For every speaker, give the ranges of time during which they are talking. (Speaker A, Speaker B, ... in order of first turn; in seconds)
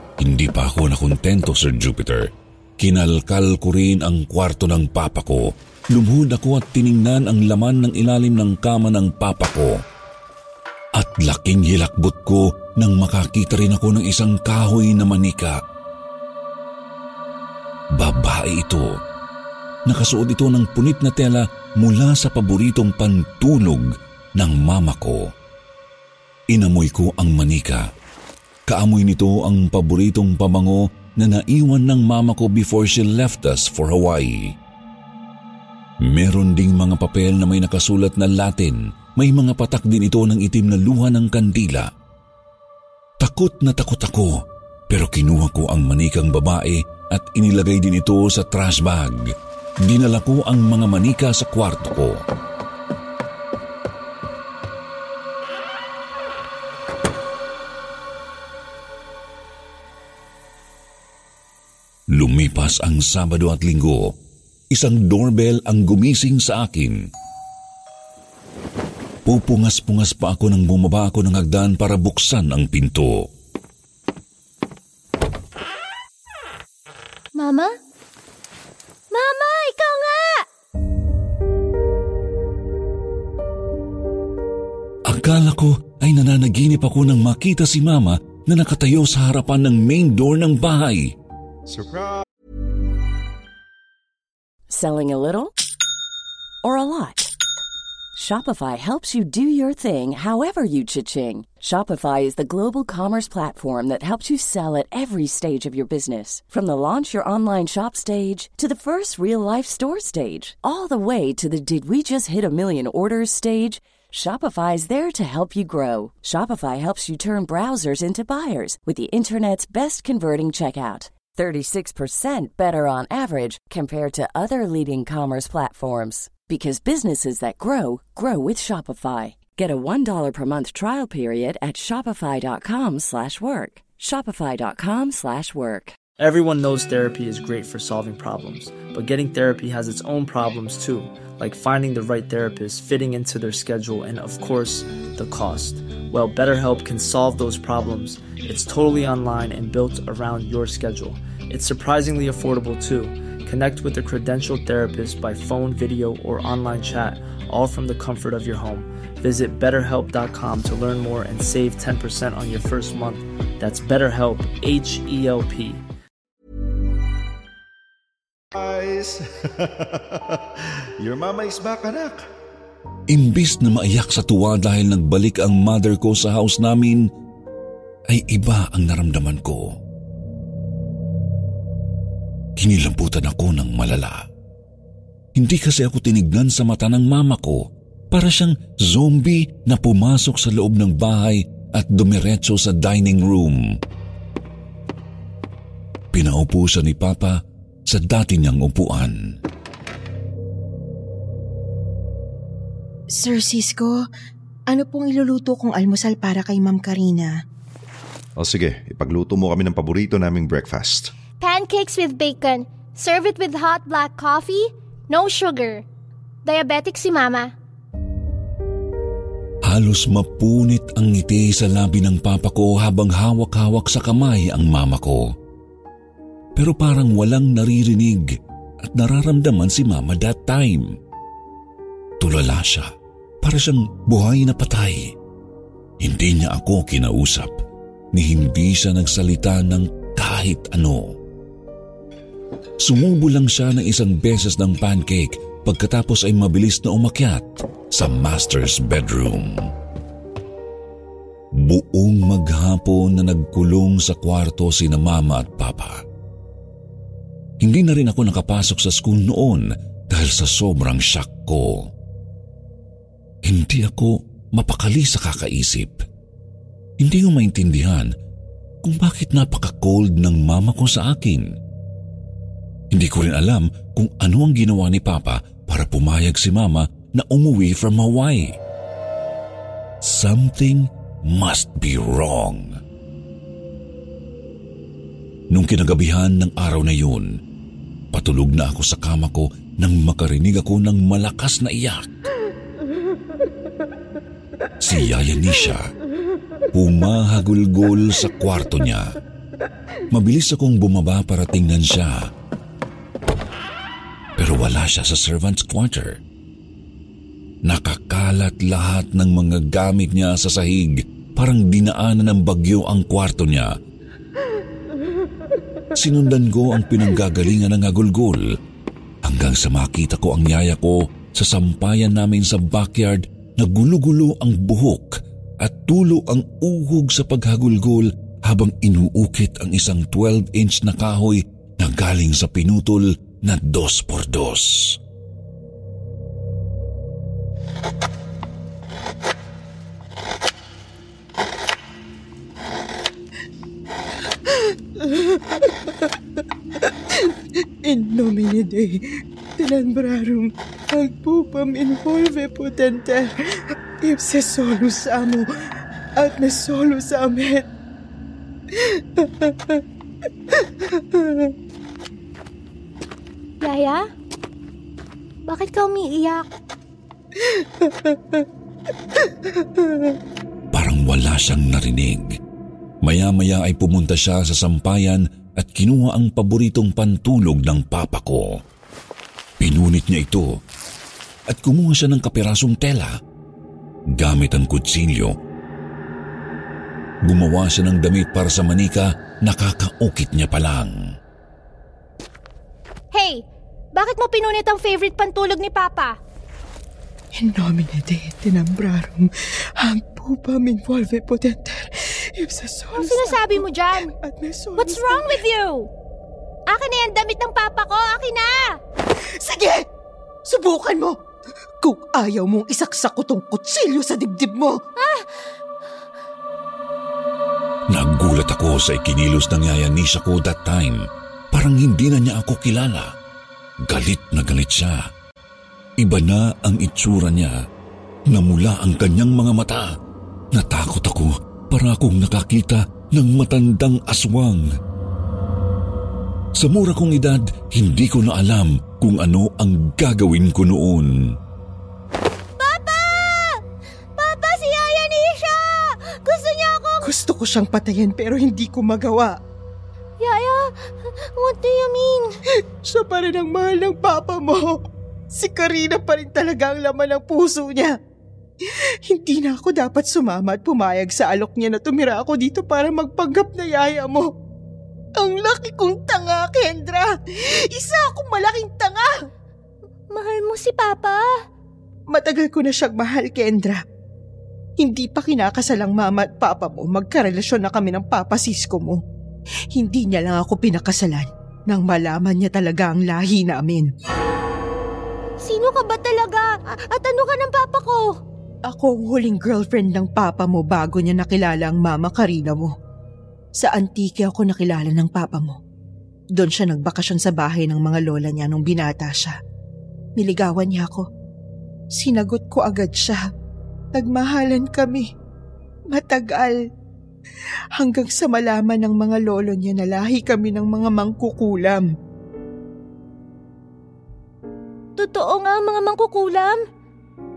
Speaker A: 0.2-9.8, 11.0-15.6, 17.9-18.9, 19.9-25.3, 26.5-27.8, 28.7-34.5, 36.0-41.9, 43.2-52.2, 62.1-64.1, 64.7-67.1, 69.2-73.3, 85.1-91.1, 173.1-177.1, 178.1-179.8, 182.6-184.2, 185.4-193.8, 196.1-197.4, 197.9-199.4, 219.7-225.2, 226.6-228.3, 228.8-230.9, 232.2-232.9, 233.4-235.1, 236.0-237.5, 238.1-241.2, 242.8-249.7, 251.5-256.0, 257.6-261.9, 263.4-266.0, 267.0-268.1, 268.8-271.6, 272.9-278.6, 280.0-282.8, 285.5-287.3, 288.1-292.2, 294.8-295.9, 296.7-299.1, 300.1-302.3, 304.4-306.2, 307.6-313.7, 315.9-318.5, 319.2-335.0, 370.7-372.4, 373.0-378.6, 379.6-380.6, 381.5-383.2, 384.1-385.3, 387.2-391.0, 417.9-421.0, 421.5-423.1, 423.9-425.1, 426.0-427.5, 428.3-429.9, 430.5-434.7, 436.6-441.3
Speaker B: 77.4-77.7, 79.1-80.4, 211.4-215.8, 216.4-217.5, 363.6-364.0, 365.5-366.5, 393.1-396.2, 402.9-404.1, 404.8-405.9, 406.7-408.8, 415.0-415.5, 442.6-443.6, 444.2-447.1, 450.2-452.3, 470.1-471.3, 485.4-488.2, 515.0-516.6
Speaker C: 91.7-92.2, 168.5-172.2, 208.4-211.1
Speaker D: 94.7-95.5, 96.6-97.3, 98.1-135.9
Speaker E: 136.2-165.8
Speaker F: 203.1-203.9, 204.7-207.3, 344.4-346.2, 346.8-355.5, 356.2-357.7, 358.7-359.8, 360.5-361.5, 367.4-368.5, 369.2-370.1, 397.4-405.4, 409.4-409.9, 410.4-411.2, 411.8-414.8, 447.0-449.4, 452.8-458.0, 459.1-464.3, 465.2-469.1, 472.1-473.8, 474.8-479.0, 479.7-483.9, 488.7-492.7, 493.6-495.6, 496.3-499.4, 500.2-501.1, 501.9-503.2, 503.9-505.0, 505.9-506.6, 507.8-511.9